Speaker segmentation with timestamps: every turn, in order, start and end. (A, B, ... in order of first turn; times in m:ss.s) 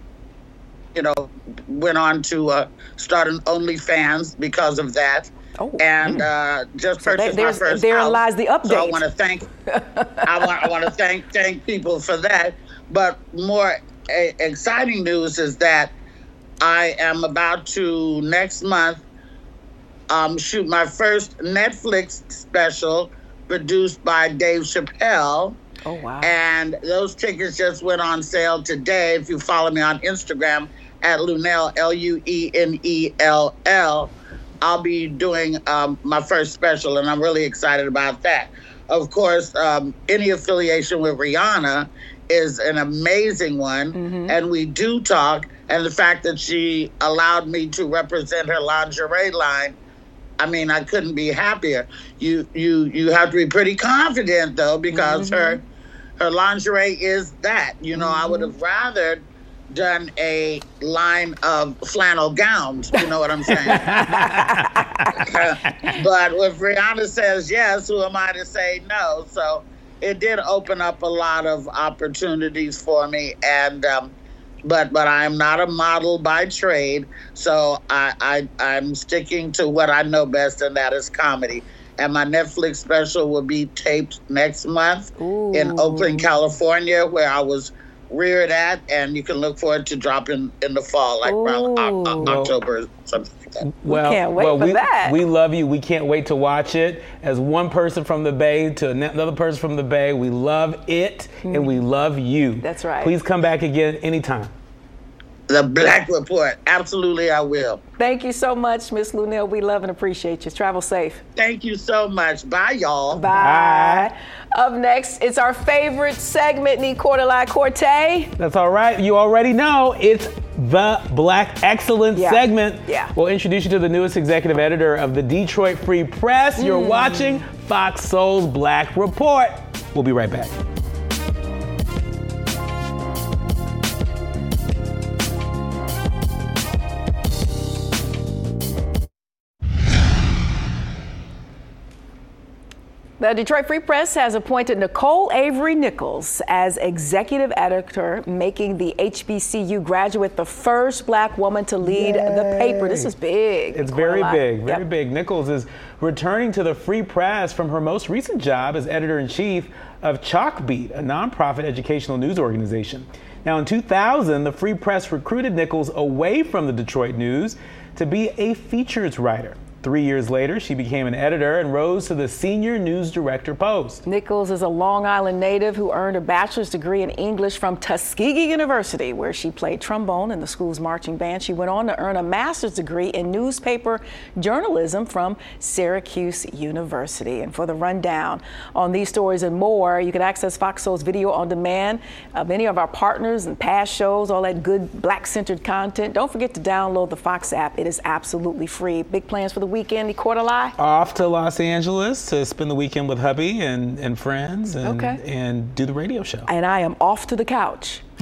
0:01.0-0:09.5 A
0:05.6-0:06.1 B
0:07.0-0:09.0 B
0:09.7-0:10.7 B
0:10.3-0:15.9 A
0:16.6-0:19.0 A
0:20.1-0:25.6 A
0:25.8-0:26.3 B
0:26.2-0:49.8 A
0:43.9-0:44.4 B
0:50.4-0:55.6 A
0:54.9-0:55.6 B
0:56.2-1:03.9 A
0:58.0-0:58.5 B
1:03.7-1:05.1 C
1:03.7-1:05.2 B
1:05.2-1:14.1 A
1:14.6-1:33.6 A
1:25.2-1:26.3 B
1:31.2-1:32.3 B
1:32.2-1:32.5 C
1:33.6-1:44.5 C
1:33.9-1:35.2 B
1:41.4-1:41.8 B
1:42.6-1:43.1 B
1:45.5-1:47.8 A
1:48.0-1:51.2 B
1:51.4-1:53.3 A
1:53.1-1:58.3 B
1:53.3-1:54.1 C
1:58.4-2:10.6 C
2:02.2-2:03.1 B
2:06.6-2:07.4 B
2:23.2-2:34.8 B
2:31.8-2:33.1 C
2:33.7-2:54.0 C
2:54.0-3:20.8 B
3:20.8-3:26.5 C
3:24.8-3:25.2 B
3:26.5-3:28.0 B